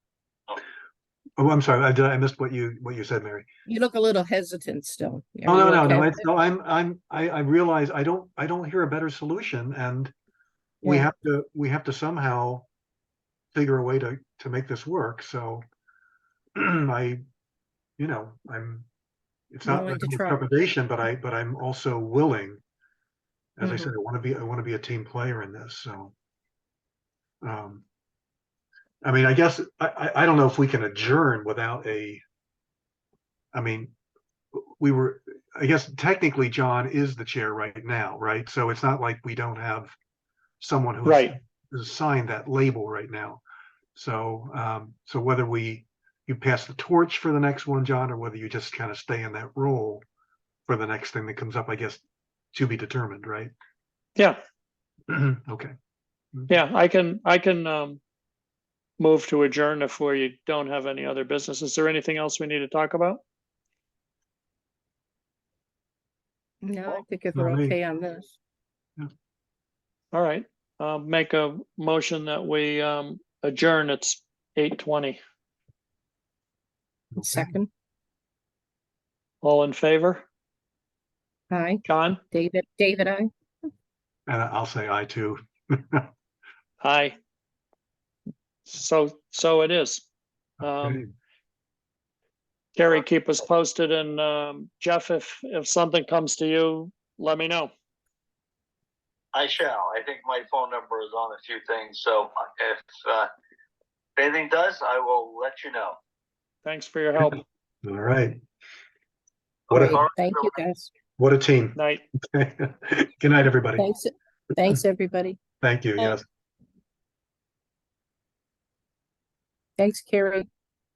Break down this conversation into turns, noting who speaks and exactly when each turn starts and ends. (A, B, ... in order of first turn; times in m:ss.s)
0:01.4-0:03.4 A
0:03.6-0:06.2 B
0:05.4-0:10.1 A
0:10.8-0:11.1 B
0:10.8-0:12.7 A
0:13.5-0:15.6 A
0:16.6-0:17.2 A
0:18.0-0:18.9 A
0:19.5-0:22.6 A
0:19.6-0:20.4 B
0:23.6-0:26.1 A
0:23.6-0:23.9 B
0:27.4-0:27.8 A
0:29.0-0:32.2 A
0:33.5-0:33.9 A
0:34.5-0:40.0 A
0:40.6-0:43.4 A
0:41.0-0:41.3 C
0:43.9-0:50.0 A
0:50.7-0:53.5 A
0:55.1-0:55.7 A
0:56.5-0:58.0 C
0:59.0-1:03.2 C
1:06.6-1:08.3 B
1:07.3-1:07.8 A
1:10.1-1:15.2 C
1:17.1-1:17.5 A
1:17.2-1:17.7 B
1:19.4-1:20.2 C
1:21.5-1:23.3 B
1:21.8-1:22.2 C
1:24.3-1:26.1 A
1:26.8-1:27.2 C
1:28.6-1:30.1 C
1:30.6-1:31.0 C
1:30.6-1:31.1 A
1:32.8-1:37.7 C
1:39.3-1:43.3 D
1:44.2-1:46.0 D
1:46.6-1:47.4 C
1:47.8-1:48.4 A
1:49.7-1:50.0 A
1:49.7-1:50.6 D
1:49.7-1:50.9 B
1:51.2-1:53.9 A
1:51.7-1:52.0 C
1:53.8-1:55.4 B
1:55.6-1:56.2 A
1:59.8-2:00.5 B